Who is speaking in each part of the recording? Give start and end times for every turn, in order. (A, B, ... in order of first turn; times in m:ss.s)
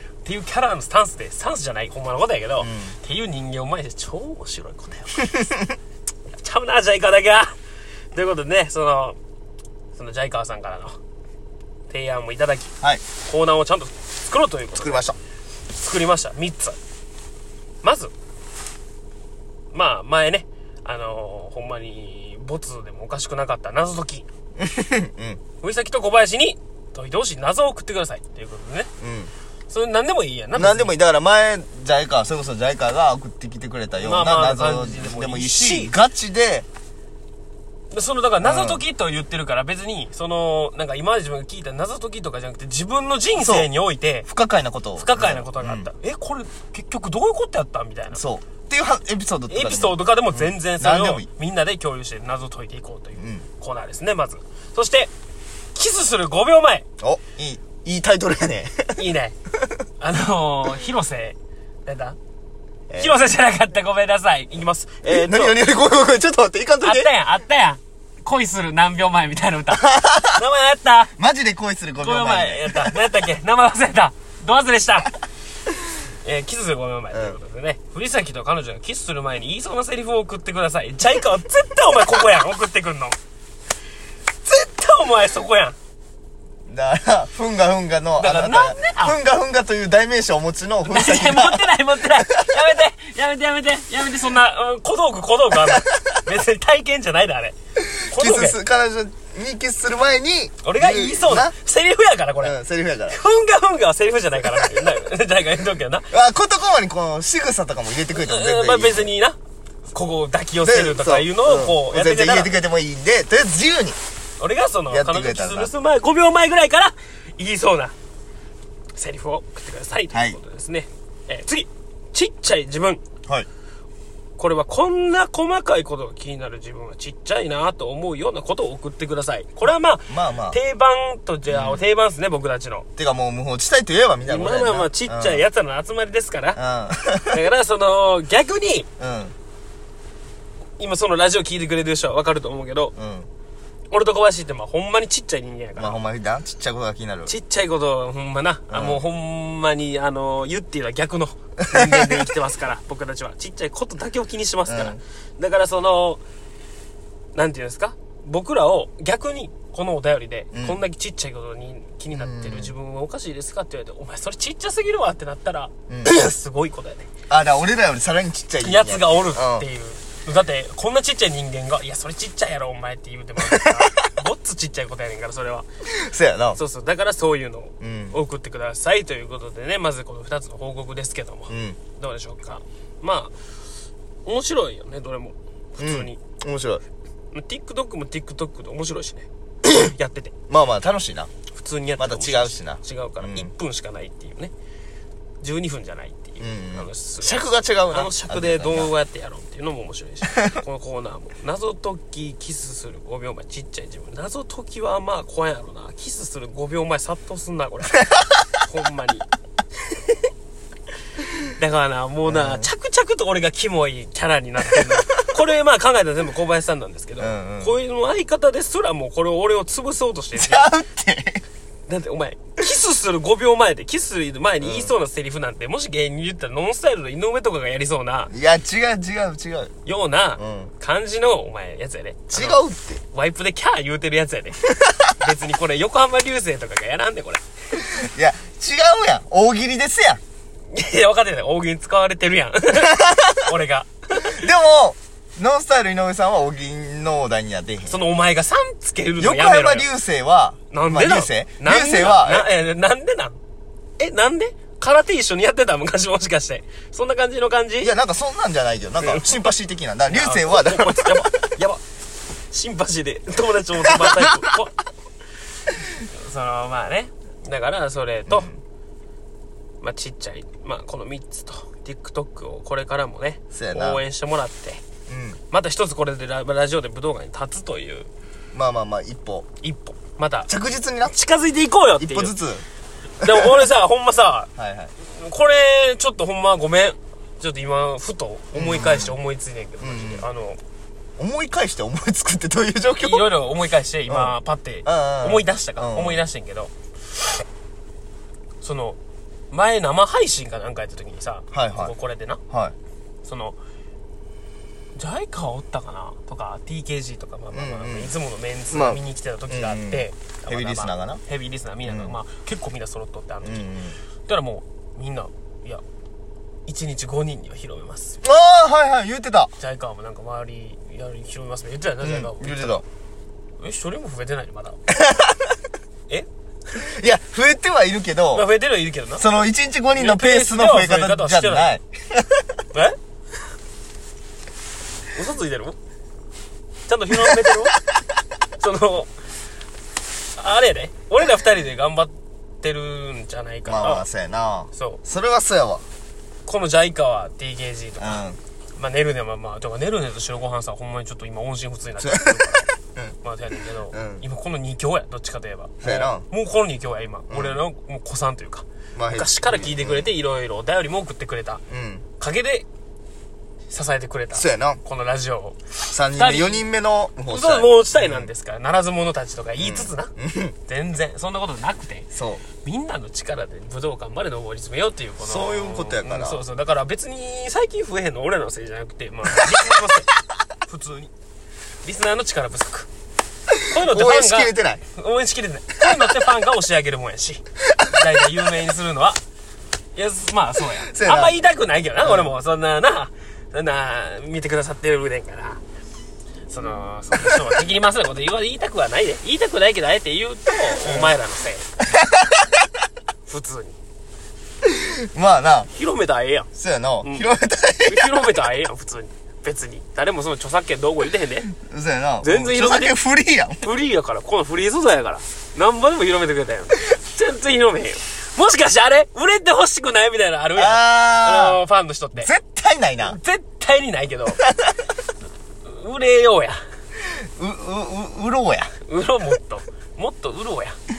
0:00.2-0:05.3 A
0:02.6-0:03.0 B
0:05.3-0:05.8 B
0:06.4-0:07.6 A
0:08.1-0:09.2 A
0:10.0-0:11.0 A
0:11.9-0:15.1 A
0:14.7-0:15.2 B
0:15.8-0:16.8 A
0:17.8-0:18.1 A
0:19.7-0:24.3 A
0:24.6-0:25.4 B
0:25.6-0:28.9 A
0:29.0-0:29.3 B
0:29.7-0:31.0 A
0:30.5-0:36.7 B
0:34.0-0:35.9 A
0:37.9-0:44.3 A
0:38.4-0:38.8 B
0:43.4-0:43.7 B
0:44.3-0:45.9 B
0:45.0-0:48.2 A
0:48.1-0:51.3 B
0:49.5-0:55.1 A
0:53.2-0:53.4 B
0:55.8-0:56.8 A
0:57.0-0:59.0 B
0:59.0-0:59.4 A
1:00.0-1:02.2 A
1:02.9-1:03.2 B
1:03.0-1:05.6 A
1:05.0-1:07.1 B
1:06.8-1:11.1 A
1:09.7-1:10.4 B
1:11.2-1:13.0 B
1:12.0-1:15.1 A
1:16.2-1:23.2 A
1:17.1-1:17.4 B
1:24.4-1:25.8 A
1:26.7-1:32.6 B
1:28.2-1:29.2 A
1:30.9-1:37.6 A
1:35.6-1:36.2 B
1:37.8-1:41.5 B
1:38.1-1:38.6 A
1:40.6-1:42.6 A
1:42.4-1:43.2 B
1:43.1-1:46.1 A
1:44.4-1:44.8 B
1:46.1-1:49.1 B
1:48.1-1:49.4 A
1:49.9-1:52.5 A
1:50.6-1:54.0 B
1:54.4-1:58.0 A
1:54.9-1:55.7 B
1:59.0-2:03.0 A
2:00.1-2:00.4 B
2:04.4-2:12.9 A
2:10.1-2:10.6 B
2:11.5-2:11.8 B
2:13.0-2:15.4 B
2:14.2-2:16.6 A
2:16.6-2:17.4 B
2:17.3-2:18.9 A
2:19.0-2:19.4 B
2:20.8-2:22.9 A
2:23.0-2:23.3 B
2:23.9-2:26.0 A
2:25.8-2:27.3 B
2:27.3-2:36.2 A
2:28.7-2:29.0 B
2:31.7-2:32.3 B
2:34.7-2:35.0 B
2:37.4-2:47.1 A
2:40.5-2:40.8 B
2:42.1-2:42.7 B
2:45.9-2:46.2 B
2:47.3-2:49.7 B
2:48.6-2:55.7 A
2:53.4-2:54.1 B
2:55.9-2:56.6 B
2:56.6-3:03.3 A
2:57.8-2:58.2 B
3:01.5-3:01.8 B
3:04.3-3:06.2 A
3:05.8-3:06.8 B
3:07.3-3:10.3 A
3:10.5-3:11.3 B
3:11.5-3:14.5 A
3:12.0-3:13.5 B
3:15.4-3:29.3 A
3:16.4-3:18.9 B
3:31.6-3:40.7 A
3:32.3-3:32.7 B
3:34.8-3:35.0 B
3:37.2-3:37.8 B
3:40.4-3:41.4 B
3:41.9-3:48.3 A
3:44.6-3:44.9 B
3:48.3-3:49.7 B
3:49.8-3:52.6 A
3:50.4-3:50.7 B
3:52.3-3:53.0 B
3:53.1-3:54.6 A
3:55.2-3:57.4 A
3:57.8-4:00.2 B
4:00.7-4:04.4 A
4:02.8-4:03.5 B
4:04.2-4:08.0 B
4:07.9-4:09.9 A
4:09.2-4:12.5 B
4:10.7-4:13.4 A
4:14.0-4:17.9 A
4:17.8-4:21.5 B
4:19.0-4:19.5 A
4:20.1-4:21.8 A
4:22.5-4:24.8 A
4:24.0-4:24.5 B
4:25.9-4:28.5 A
4:28.3-4:28.6 B
4:29.8-4:34.8 A
4:33.5-4:34.0 B
4:35.1-4:35.4 B
4:35.5-4:38.1 A
4:38.5-4:39.5 B
4:39.6-4:40.5 A
4:40.5-4:41.2 B
4:41.1-4:42.4 A
4:42.0-4:42.6 B
4:43.2-4:50.6 A
4:43.2-4:43.7 B
4:44.6-4:44.9 B
4:48.5-4:49.2 B
4:49.8-4:50.3 B
4:51.2-4:53.3 B
4:53.0-4:56.7 A
4:54.1-4:56.2 B
4:58.6-4:59.0 A
4:59.5-5:02.4 A
5:01.5-5:01.9 B
5:03.2-5:03.6 A
5:05.0-5:13.7 A
5:07.5-5:08.1 B
5:08.7-5:11.2 B
5:11.9-5:12.2 B
5:13.4-5:14.0 B
5:14.3-5:15.8 A
5:16.7-5:18.2 A
5:18.2-5:19.5 B
5:19.6-5:22.8 A
5:22.0-5:22.8 B
5:23.6-5:24.8 A
5:24.9-5:25.5 B
5:26.8-5:28.5 B
5:28.3-5:29.2 A
5:29.2-5:32.4 B
5:30.0-5:31.7 A
5:35.1-5:35.8 A
5:36.9-5:37.8 A
5:38.6-5:39.1 A
5:40.4-5:44.1 A
5:43.7-5:45.8 B
5:44.7-5:45.0 A
5:46.5-5:52.7 A
5:48.0-5:48.4 B
5:52.0-5:53.2 B
5:53.2-6:01.6 A
5:53.9-5:54.2 B
5:55.8-5:56.2 B
5:57.3-5:57.6 B
5:59.0-6:00.1 B
6:01.7-6:02.0 B
6:02.2-6:02.7 A
6:03.7-6:06.7 A
6:04.3-6:04.8 B
6:05.9-6:08.3 B
6:07.3-6:10.1 A
6:09.6-6:10.6 B
6:10.7-6:12.1 A
6:12.1-6:12.4 B
6:12.6-6:20.1 A
6:15.2-6:16.4 B
6:20.7-6:21.1 A
6:21.8-6:22.9 A
6:23.7-6:24.8 B
6:23.7-6:29.2 A
6:27.7-6:28.1 B
6:30.0-6:35.6 A
6:30.9-6:31.4 B
6:32.0-6:32.3 B
6:36.5-6:41.7 A
6:40.8-6:41.2 B
6:41.9-6:42.6 B
6:43.3-6:43.8 A
6:44.6-6:45.7 B
6:45.7-6:46.5 A
6:46.6-6:48.4 B
6:47.0-6:47.3 A
6:47.9-6:51.5 A
6:51.5-6:53.6 B
6:52.2-6:53.0 A
6:53.6-7:02.3 A
7:00.6-7:01.6 B
7:02.2-7:03.2 B
7:03.0-7:04.4 A
7:04.5-7:04.8 B
7:05.6-7:06.6 A
7:07.2-7:08.7 B
7:08.9-7:10.8 A